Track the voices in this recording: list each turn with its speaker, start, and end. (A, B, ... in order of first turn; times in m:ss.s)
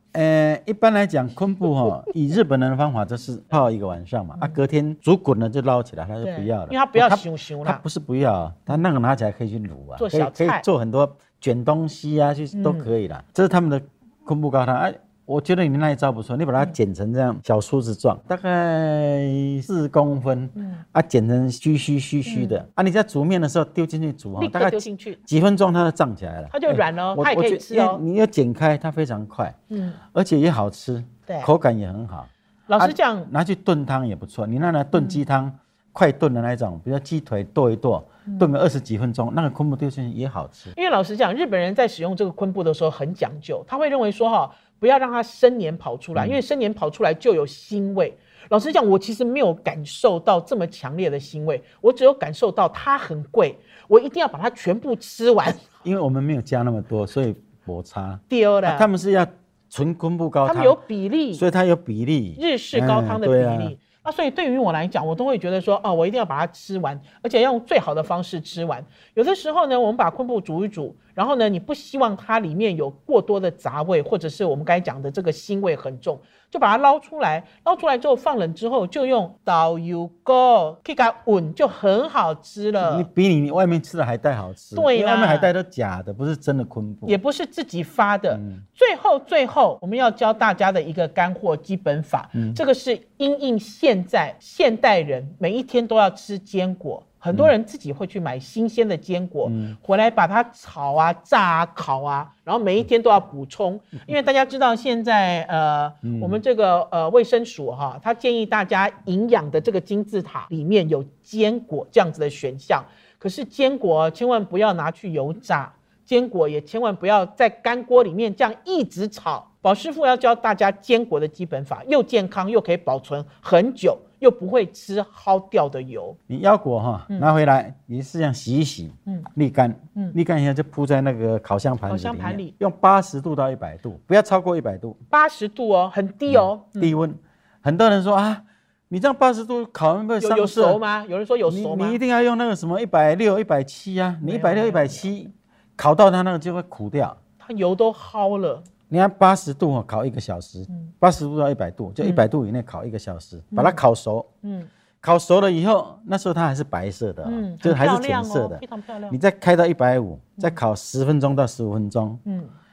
0:00.1-0:29.6 A
0:06.2-0:07.8 B
0:10.0-0:10.6 B
0:12.5-0:12.9 B
0:20.6-0:20.8 B
0:22.3-0:22.6 B
0:24.4-0:25.2 B
0:26.5-0:28.0 B
0:29.7-0:30.0 B
0:30.1-0:40.8 A
0:32.7-0:33.3 B
0:35.0-0:35.2 B
0:40.7-0:55.8 B
0:55.8-1:00.8 A
0:58.3-0:58.9 B
1:00.4-1:01.4 B
1:01.3-1:03.7 A
1:02.4-1:23.1 B
1:22.8-1:27.2 A
1:24.7-1:25.5 B
1:27.1-2:06.2 B
1:28.3-1:28.6 A
1:39.4-1:39.8 A
1:46.0-1:46.4 A
2:06.3-2:15.0 A
2:11.9-2:12.5 B
2:15.1-2:16.9 B
2:16.3-2:20.8 A
2:20.2-2:22.0 B
2:21.5-2:27.2 A
2:24.2-2:25.1 B
2:27.4-2:28.7 B
2:28.9-2:34.3 A
2:33.5-2:33.8 B
2:34.4-2:34.7 B
2:35.0-2:42.2 A
2:37.2-2:39.2 B
2:42.3-2:42.5 B